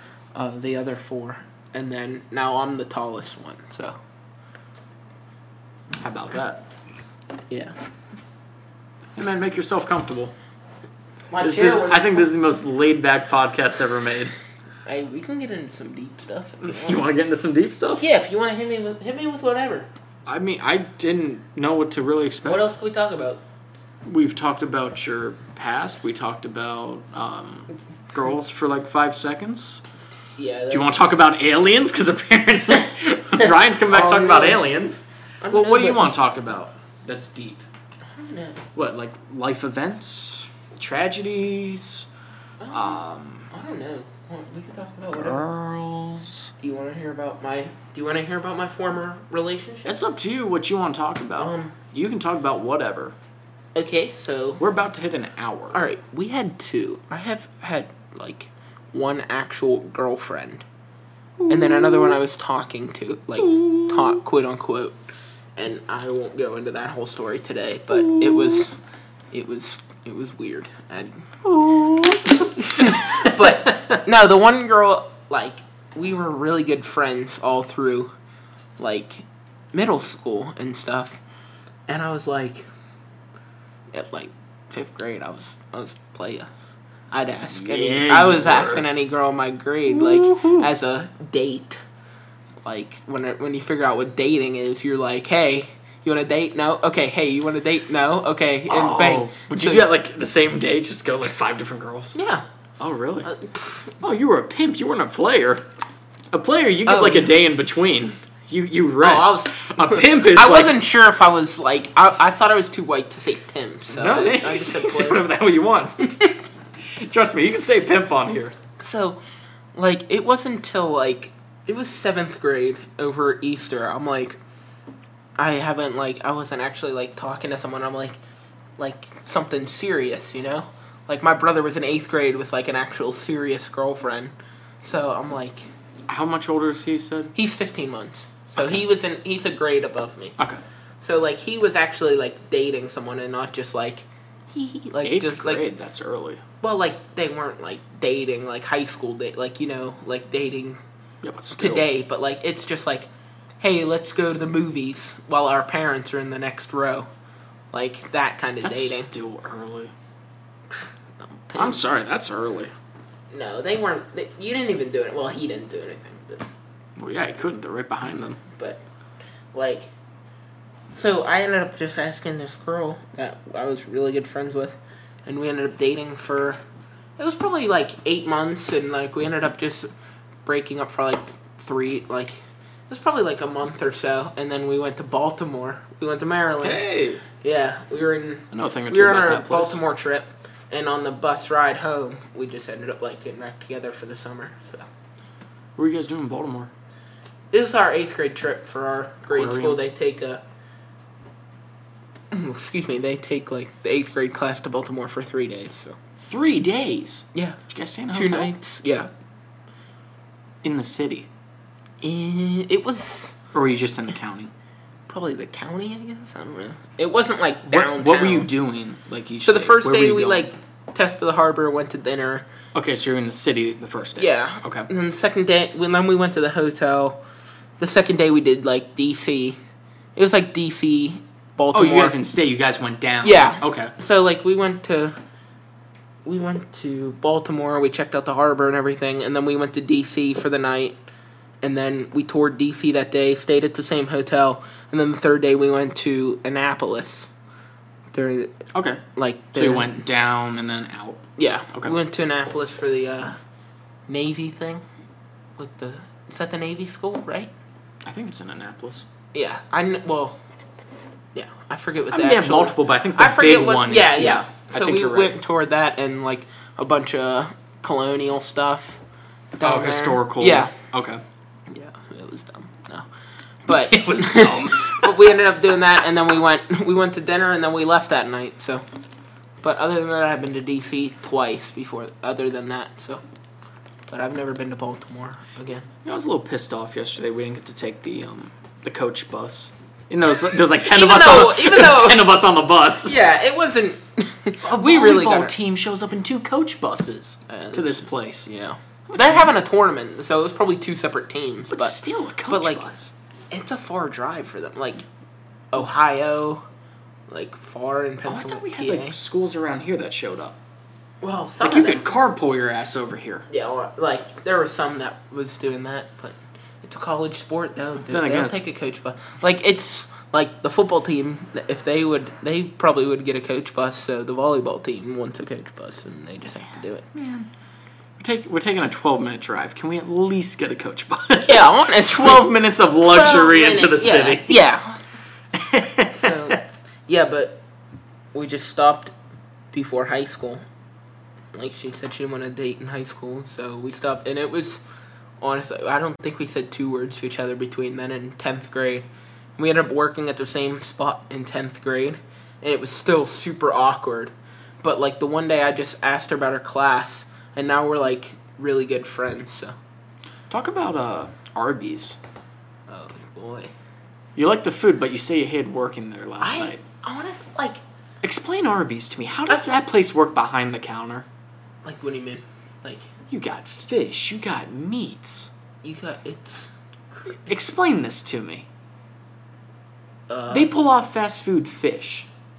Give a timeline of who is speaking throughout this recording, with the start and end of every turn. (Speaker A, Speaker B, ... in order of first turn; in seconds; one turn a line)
Speaker A: 0.3-4.0
Speaker B: 6.0-6.6
Speaker A: 7.5-7.7
Speaker B: 9.1-10.3
Speaker A: 11.3-12.3
Speaker B: 11.4-14.3
Speaker A: 14.8-17.1
Speaker B: 16.6-18.1
Speaker A: 18.0-19.9
Speaker B: 20.2-22.6
Speaker A: 22.4-23.4
Speaker B: 24.0-29.8
Speaker A: 30.2-31.1
Speaker B: 30.7-37.6
Speaker A: 33.4-34.6
Speaker A: 35.4-36.1
Speaker A: 38.1-38.6
Speaker B: 38.7-42.1
Speaker A: 42.6-45.4
Speaker B: 42.7-43.5
Speaker B: 45.1-46.5
Speaker A: 46.6-50.1
Speaker B: 49.8-53.1
Speaker A: 51.4-51.7
Speaker A: 53.7-54.6
Speaker B: 54.6-55.9
Speaker A: 55.7-60.6
Speaker B: 61.4-62.2
Speaker A: 61.5-65.0
Speaker B: 63.4-64.2
Speaker A: 65.6-68.8
Speaker B: 67.9-68.6
Speaker A: 69.3-71.2
Speaker B: 71.4-73.9
Speaker A: 72.5-78.1
Speaker A: 78.8-81.2
Speaker A: 81.9-82.7
Speaker A: 83.9-86.5
Speaker A: 87.1-91.8
Speaker B: 87.5-88.8
Speaker B: 89.9-90.7
Speaker A: 92.6-99.8
Speaker B: 98.7-102.2
Speaker A: 102.1-102.4
Speaker B: 102.8-103.3
Speaker A: 103.2-103.9
Speaker B: 104.0-105.6
Speaker B: 106.3-110.8
Speaker A: 106.8-107.3
Speaker A: 109.0-115.2
Speaker B: 113.9-116.3
Speaker B: 116.8-118.5
Speaker A: 118.8-119.2
Speaker A: 119.7-124.4
Speaker A: 125.4-128.2
Speaker A: 128.8-135.6
Speaker B: 136.1-137.3
Speaker A: 137.3-140.3
Speaker B: 138.6-138.8
Speaker A: 141.0-145.7
Speaker B: 145.0-146.4
Speaker A: 146.6-150.8
Speaker B: 151.2-151.9
Speaker A: 151.6-153.1
Speaker A: 153.6-157.1
Speaker A: 157.7-159.1
Speaker B: 158.6-159.9
Speaker A: 161.2-161.8
Speaker B: 161.6-162.7
Speaker A: 163.3-166.5
Speaker B: 166.9-168.4
Speaker A: 168.5-168.8
Speaker A: 169.5-169.9
Speaker A: 170.9-176.6
Speaker A: 177.2-179.9
Speaker A: 180.4-186.8
Speaker B: 186.6-187.2
Speaker A: 187.4-194.9
Speaker B: 188.5-189.8
Speaker B: 195.8-196.7
Speaker A: 197.5-200.4
Speaker B: 199.3-199.8
Speaker A: 202.3-206.0
Speaker B: 206.2-208.5
Speaker A: 207.3-207.6
Speaker A: 208.1-209.1
Speaker B: 210.6-211.3
Speaker A: 212.0-213.3
Speaker B: 213.5-214.5
Speaker A: 215.1-218.5
Speaker B: 217.7-220.5
Speaker A: 219.4-222.4
Speaker B: 222.7-224.9
Speaker A: 224.1-227.2
Speaker A: 227.8-229.6
Speaker A: 230.2-232.2
Speaker B: 231.7-233.9
Speaker A: 233.2-235.2
Speaker A: 236.2-241.0
Speaker A: 241.6-247.3
Speaker A: 248.1-250.0
Speaker B: 248.7-249.0
Speaker B: 249.5-251.9
Speaker A: 251.4-253.4
Speaker A: 254.1-254.8
Speaker A: 255.6-257.5
Speaker B: 258.0-259.1
Speaker A: 259.3-260.4
Speaker A: 261.3-269.0
Speaker B: 262.1-265.4
Speaker A: 269.6-270.7
Speaker B: 269.6-271.2
Speaker A: 271.7-273.1
Speaker A: 273.6-278.8
Speaker B: 273.7-275.3
Speaker A: 279.6-283.2
Speaker A: 284.1-285.9
Speaker B: 286.0-293.1
Speaker A: 290.7-292.3
Speaker A: 293.0-295.5
Speaker B: 294.6-298.5
Speaker A: 297.5-302.9
Speaker B: 299.1-299.5
Speaker B: 301.7-303.1
Speaker A: 303.5-305.0
Speaker A: 305.7-306.6
Speaker A: 307.3-309.1
Speaker B: 308.2-310.6
Speaker A: 311.2-312.1
Speaker B: 311.6-313.5
Speaker A: 313.5-327.1
Speaker B: 318.0-318.6
Speaker B: 327.1-327.5
Speaker B: 328.2-334.6
Speaker A: 331.4-335.0
Speaker B: 335.5-336.6
Speaker A: 336.1-337.6
Speaker A: 338.3-339.1
Speaker A: 339.7-340.6
Speaker A: 341.5-344.8
Speaker A: 345.4-359.8
Speaker B: 360.5-362.2
Speaker A: 362.9-363.7
Speaker B: 364.3-366.8
Speaker A: 366.4-367.8
Speaker B: 368.2-371.3
Speaker A: 369.5-369.7
Speaker A: 371.8-373.1
Speaker B: 373.3-375.5
Speaker A: 375.8-377.5
Speaker B: 377.5-378.7
Speaker A: 380.3-380.7
Speaker B: 380.5-382.3